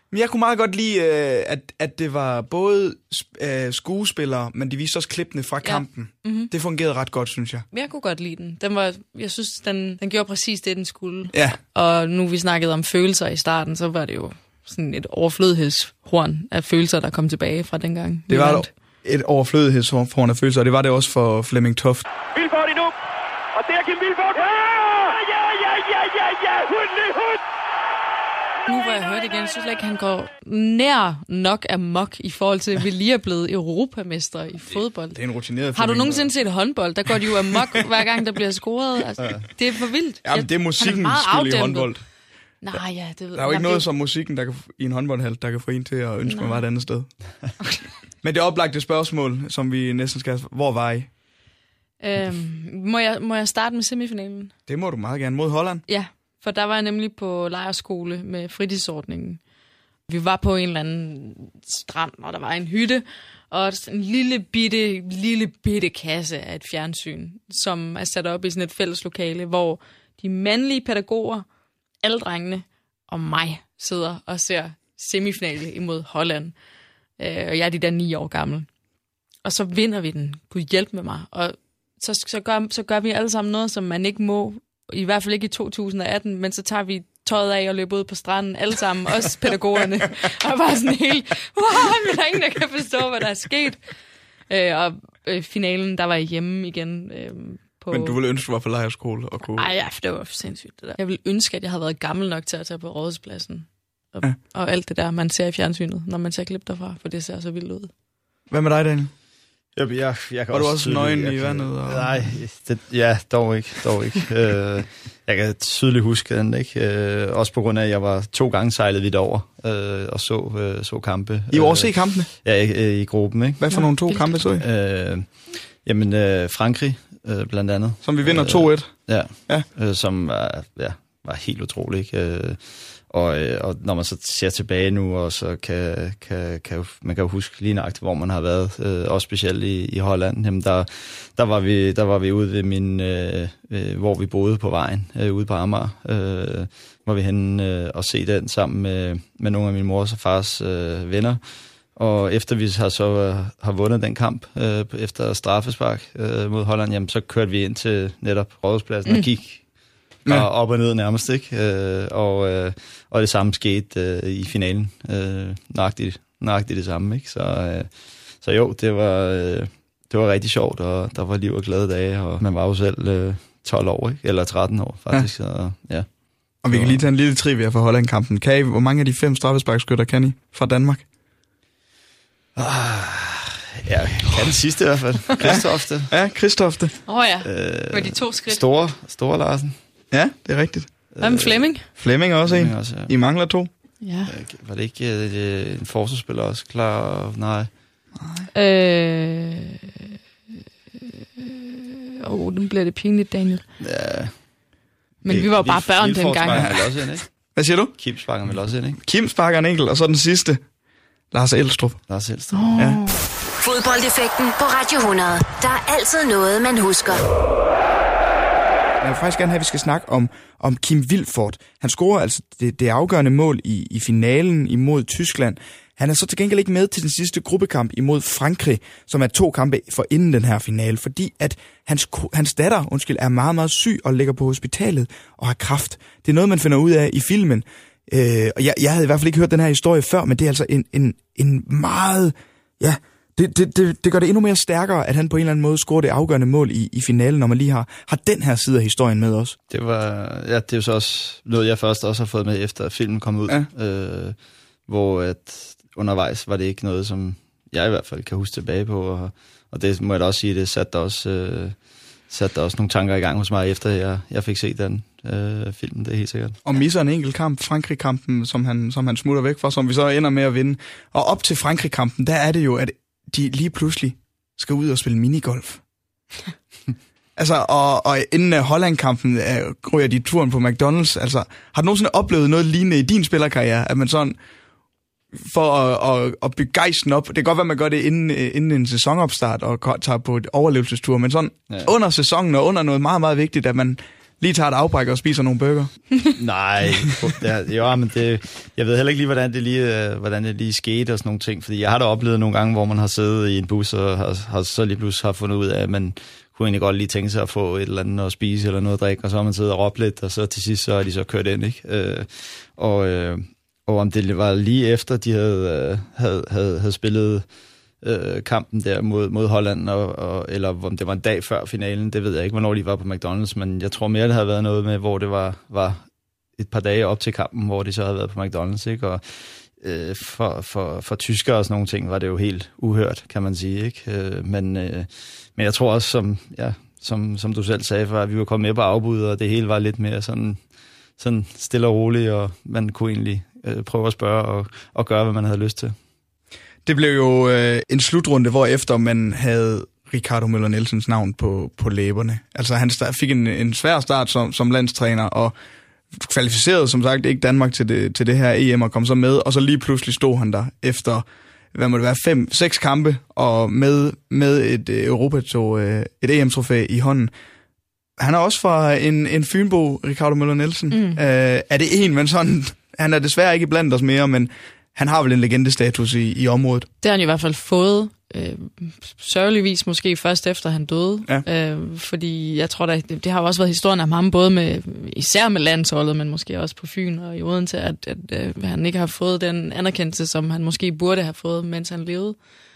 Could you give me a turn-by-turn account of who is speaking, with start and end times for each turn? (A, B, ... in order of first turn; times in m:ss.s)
0:00.1-0:07.6 A
0:05.6-0:06.5 B
0:07.7-0:18.7 B
0:11.3-0:11.6 A
0:18.3-0:22.1 A
0:22.3-0:22.9 C
0:23.6-0:27.4 C
0:28.7-0:35.2 B
0:35.1-0:36.3 A
0:35.7-0:41.9 B
0:39.2-0:39.4 D
0:40.2-0:42.0 A
0:42.6-0:43.9 B
0:43.3-0:47.2 A
0:46.3-0:46.6 B
0:48.2-0:51.1 A
0:52.0-0:54.5 B
0:54.7-0:55.8 A
0:55.9-0:59.4 B
1:00.1-1:11.4 B
1:12.0-1:16.6 B
1:17.2-1:18.7 B
1:19.4-1:33.8 B
1:34.5-1:38.2 B
1:37.9-1:39.7 A
1:39.4-1:47.9 B
1:48.5-1:49.1 A
1:49.8-2:31.4 D
1:50.5-1:52.3 A
2:01.5-2:02.3 A
2:03.6-2:04.6 A
2:03.7-2:04.4 B
2:08.0-2:09.7 A
2:32.0-2:39.6 D
2:40.2-2:47.9 D
2:48.4-2:56.1 D
2:56.6-3:01.0 A
2:56.7-2:57.0 D
3:02.6-3:06.1 D
3:05.4-3:07.0 A
3:07.1-3:08.6 B
3:07.4-3:09.8 D
3:10.1-3:10.9 A
3:11.1-3:11.9 D
3:11.2-3:11.9 B
3:11.9-3:13.7 A
3:12.4-3:13.1 D
3:14.0-3:14.3 B
3:14.3-3:17.7 D
3:18.2-3:18.5 A
3:18.5-3:19.9 B
3:21.0-3:23.6 B
3:23.8-3:24.3 D
3:25.2-3:26.7 B
3:25.2-3:27.3 D
3:26.5-3:26.8 A
3:27.6-3:27.9 A
3:28.0-3:29.0 D
3:29.0-3:30.6 A
3:31.3-3:32.0 A
3:32.1-3:32.8 D
3:32.5-3:33.2 B
3:33.6-3:37.2 E
3:39.0-4:09.6 A
4:09.7-4:14.4 D
4:14.9-4:21.8 D
4:22.3-4:26.6 D
4:26.6-4:35.8 A
4:37.4-4:44.4 A
4:45.4-4:55.9 A
4:51.7-4:51.9 D
4:56.4-5:17.5 D
5:18.0-5:26.0 D
5:26.6-5:40.6 D
5:41.2-5:46.0 D
5:46.9-5:55.5 A
5:56.2-6:07.3 A
6:08.2-6:16.9 A
6:10.9-6:11.2 B
6:17.0-6:32.4 B